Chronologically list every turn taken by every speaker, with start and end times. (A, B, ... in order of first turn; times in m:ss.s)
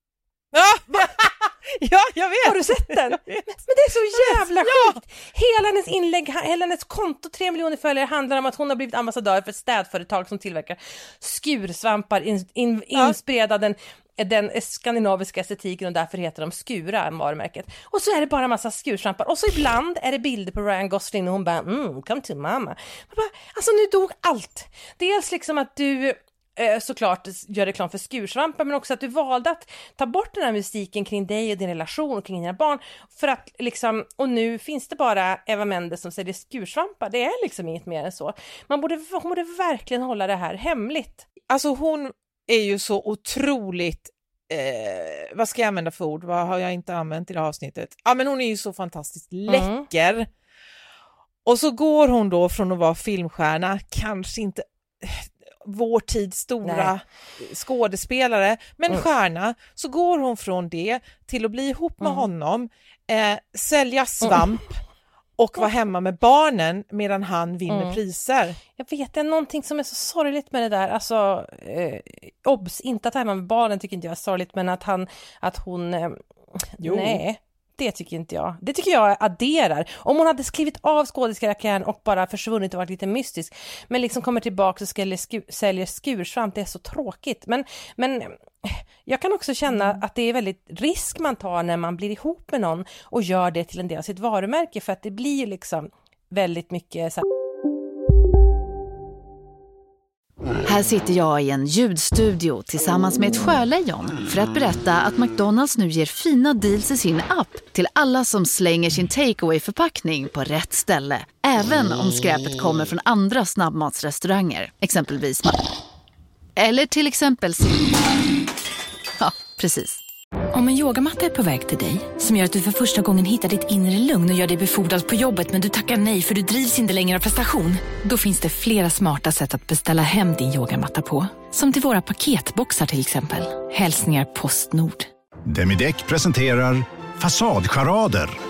0:00.5-0:03.5 A
0:02.4-0:41.2 B
0:04.1-0:05.0 A
0:41.5-0:50.3 A
0:49.5-0:49.9 B
0:51.4-1:04.8 A
0:56.6-0:56.9 B
1:02.0-1:02.3 B
1:05.4-1:08.6 A
1:07.7-1:08.0 B
1:08.8-1:37.2 B
1:16.8-1:17.2 A
1:29.7-1:30.0 A
1:40.6-1:55.6 C
1:56.6-1:58.0 C
1:59.2-2:00.0 C
2:00.5-2:15.1 D
2:15.5-2:18.4 E